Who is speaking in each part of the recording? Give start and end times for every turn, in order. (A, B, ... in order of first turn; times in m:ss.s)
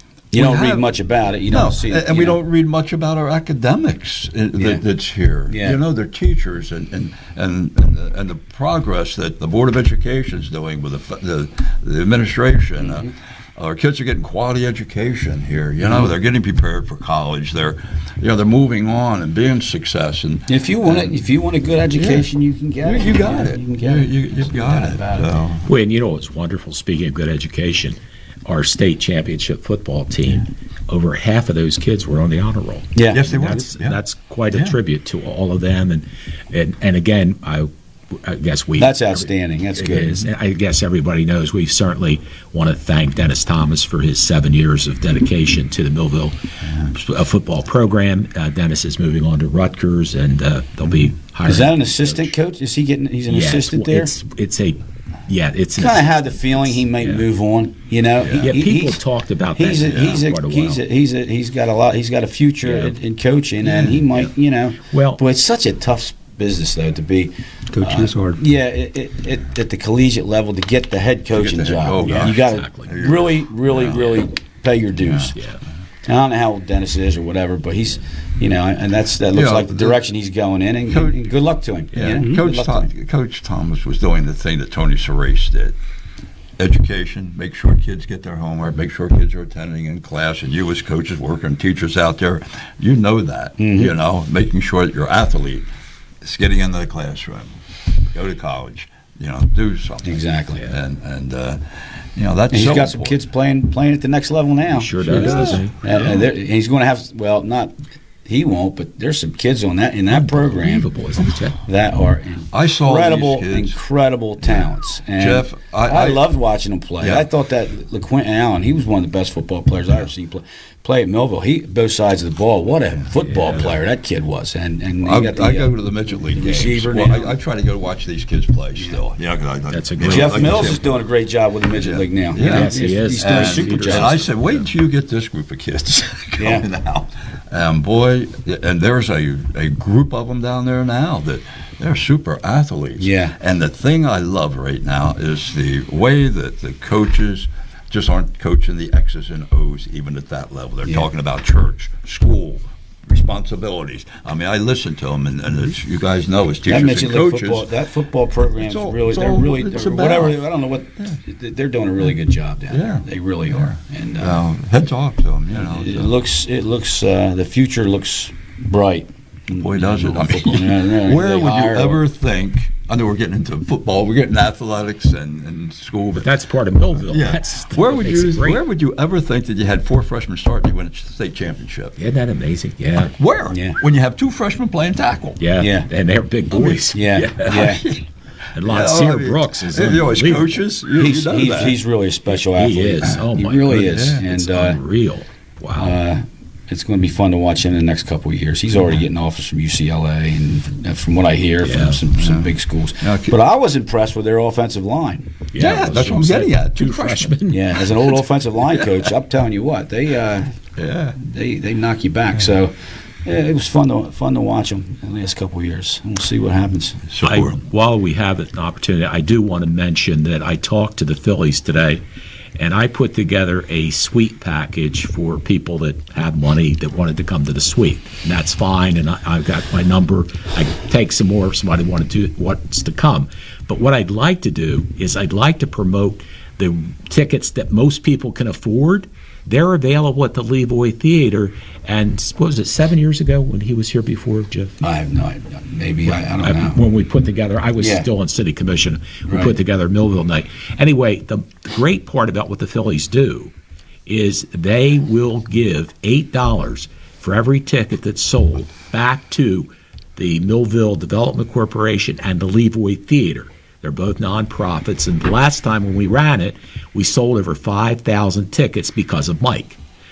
0:00.3-0:02.4 A
0:00.3-0:00.9 B
0:01.5-0:21.1 B
0:04.5-0:04.8 A
0:05.5-0:05.8 A
0:15.8-0:16.1 A
0:20.5-0:25.3 A
0:22.0-0:22.3 B
0:22.8-0:25.7 B
0:25.6-0:52.3 C
0:33.0-0:33.2 A
0:33.1-0:34.0 B
0:34.5-0:34.8 B
0:38.8-0:40.3 A
0:51.4-0:54.1 A
0:53.3-0:57.2 C
0:55.8-0:59.0 A
0:58.2-0:58.5 B
0:58.4-1:00.8 C
0:59.5-1:15.4 A
0:59.7-1:00.2 B
1:02.6-1:03.0 C
1:03.7-1:03.9 B
1:03.8-1:04.3 C
1:04.9-1:05.2 C
1:07.8-1:08.3 C
1:07.9-1:08.3 B
1:11.3-1:14.2 B
1:12.0-1:12.9 C
1:15.0-1:15.3 B
1:16.0-1:22.9 A
1:19.3-1:20.0 B
1:20.9-1:21.2 B
1:21.9-1:25.8 B
1:26.6-1:35.6 B
1:33.6-1:33.9 A
1:36.2-1:37.5 B
1:38.1-1:43.2 B
1:40.0-1:40.7 A
1:42.5-1:50.9 A
1:44.7-1:45.7 C
1:45.0-1:46.2 B
1:50.1-1:51.6 C
1:51.6-2:07.3 A
1:52.5-1:53.8 B
1:54.4-1:56.2 B
1:57.0-1:57.2 B
2:05.0-2:10.9 B
2:09.7-2:10.8 C
2:10.0-2:14.1 A
2:11.7-2:37.7 B
2:12.4-2:14.7 C
2:16.4-2:16.7 A
2:23.0-2:23.3 A
2:36.7-2:44.4 A
2:38.6-2:40.4 B
2:42.7-2:46.1 B
2:45.5-2:52.0 A
2:49.5-2:56.3 B
2:56.1-2:58.6 C
2:57.1-3:02.0 B
3:02.0-3:03.1 C
3:03.2-3:05.4 B
3:03.5-3:03.8 A
3:05.4-3:07.7 C
3:05.6-3:05.9 A
3:06.5-3:06.9 B
3:06.9-3:07.8 A
3:07.5-3:11.8 B
3:08.5-3:10.6 C
3:10.9-3:14.8 A
3:12.3-3:16.0 C
3:13.8-3:14.2 B
3:15.8-3:26.2 A
3:21.6-3:22.0 C
3:22.1-3:23.3 B
3:25.5-3:27.8 C
3:25.6-3:28.1 B
3:27.5-3:30.5 A
3:28.7-3:29.1 B
3:30.8-3:31.2 B
3:31.2-3:32.7 A
3:33.2-3:37.0 A
3:37.1-3:37.6 B
3:37.2-3:42.0 C
3:42.6-4:04.8 C
4:04.8-4:06.8 A
4:06.1-4:13.5 C
4:07.8-4:08.1 A
4:09.2-4:09.5 A
4:14.1-4:29.8 C